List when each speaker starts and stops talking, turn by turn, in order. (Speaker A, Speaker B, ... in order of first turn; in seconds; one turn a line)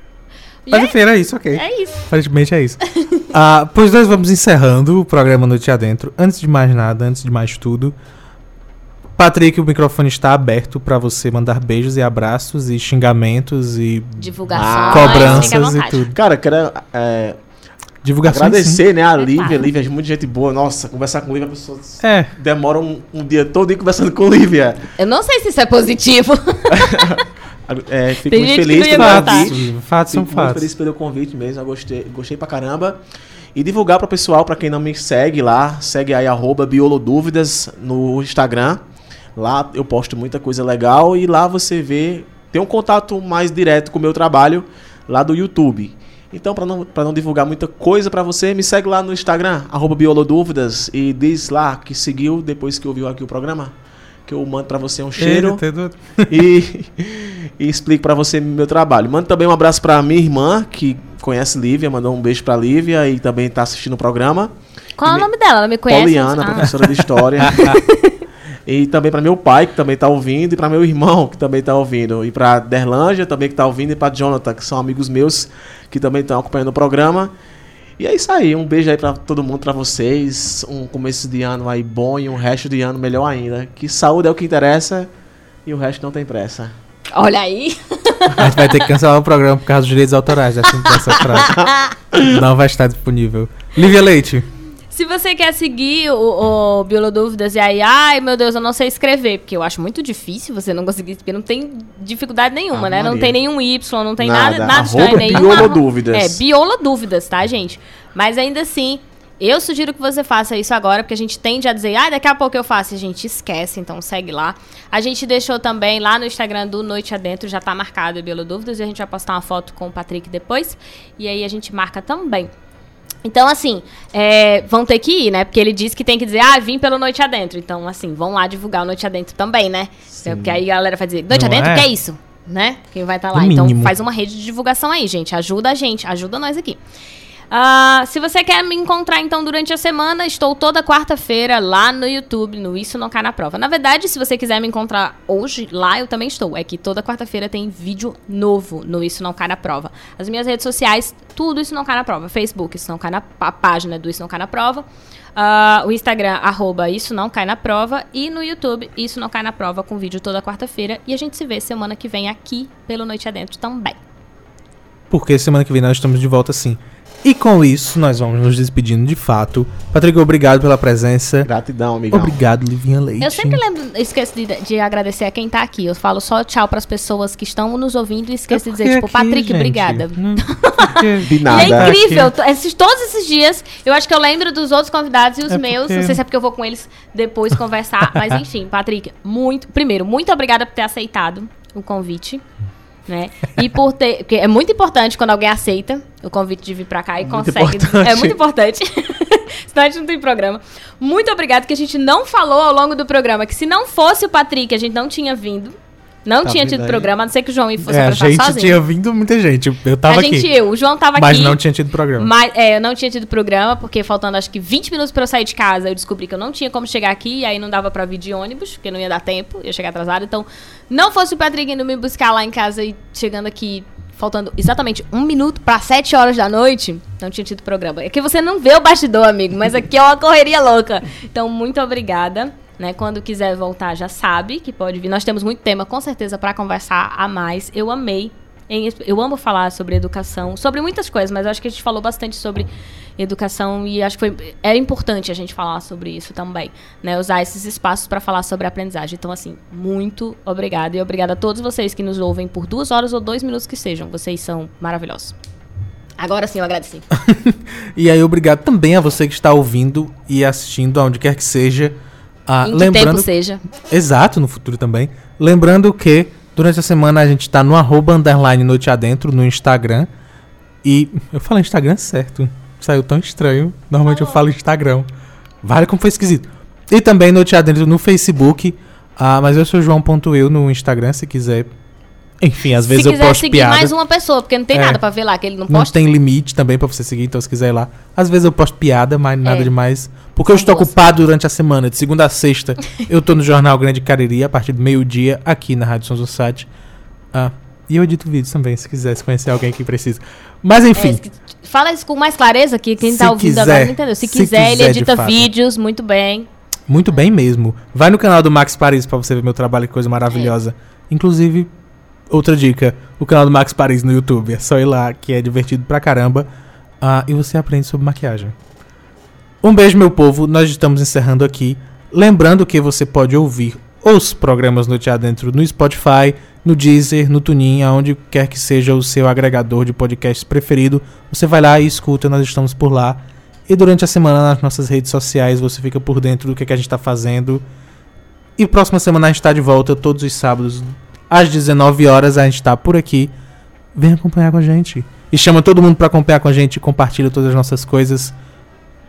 Speaker A: 0.7-1.0
Speaker B: 0.7-2.8
Speaker A: 1.5-2.0
Speaker A: 2.9-3.2
Speaker B: 3.3-7.9
Speaker B: 9.2-16.1
Speaker A: 14.2-16.1
Speaker C: 14.5-17.4
Speaker B: 18.0-18.8
Speaker C: 18.2-24.9
Speaker A: 19.2-19.7
Speaker B: 22.0-22.3
Speaker A: 25.0-27.2
Speaker C: 26.7-33.0
Speaker A: 28.3-29.5
Speaker B: 28.9-30.7
Speaker C: 33.5-38.8
Speaker C: 39.4-53.7
Speaker C: 54.3-55.6
Speaker B: 55.2-56.4
Speaker C: 56.3-64.5
Speaker A: 65.0-68.2
Speaker C: 65.9-67.7
Speaker B: 67.4-67.8
Speaker C: 68.7-77.3
Speaker C: 78.0-85.1
Speaker C: 85.7-86.7
Speaker A: 87.1-88.8
Speaker B: 88.4-91.6
Speaker A: 90.8-91.9
Speaker B: 92.2-94.5
Speaker A: 94.9-122.5
Speaker C: 102.7-103.3
Speaker C: 104.2-106.4
Speaker A: 123.2-136.8
Speaker C: 130.1-130.6
Speaker B: 131.3-131.9
Speaker B: 133.3-133.9
Speaker A: 137.5-154.8
Speaker A: 155.3-164.0
Speaker B: 165.1-171.5
Speaker C: 171.4-172.4
Speaker B: 172.1-173.6
Speaker A: 173.2-192.4
Speaker B: 178.5-182.3
Speaker C: 181.2-181.9
Speaker B: 185.5-186.2
Speaker A: 193.1-208.8
Speaker C: 197.2-198.3
Speaker C: 206.4-207.1
Speaker B: 207.8-210.5
Speaker A: 210.1-211.6
Speaker B: 211.2-212.3
Speaker A: 212.2-255.3
Speaker A: 256.2-257.1
Speaker B: 257.1-263.3
Speaker A: 262.6-263.6
Speaker B: 263.9-270.1
Speaker B: 270.8-275.1
Speaker A: 274.1-274.4
Speaker B: 275.6-281.7
Speaker B: 282.4-283.9
Speaker A: 282.8-285.9
Speaker B: 284.7-285.0
Speaker B: 285.7-296.7
Speaker A: 289.4-289.7
Speaker A: 290.5-291.0
Speaker B: 297.3-301.2
Speaker A: 300.9-306.5
Speaker B: 303.0-305.5
Speaker B: 306.9-311.7
Speaker B: 312.3-316.5
Speaker B: 317.0-318.6
Speaker B: 319.6-337.6
Speaker B: 338.6-343.3
Speaker B: 343.9-348.3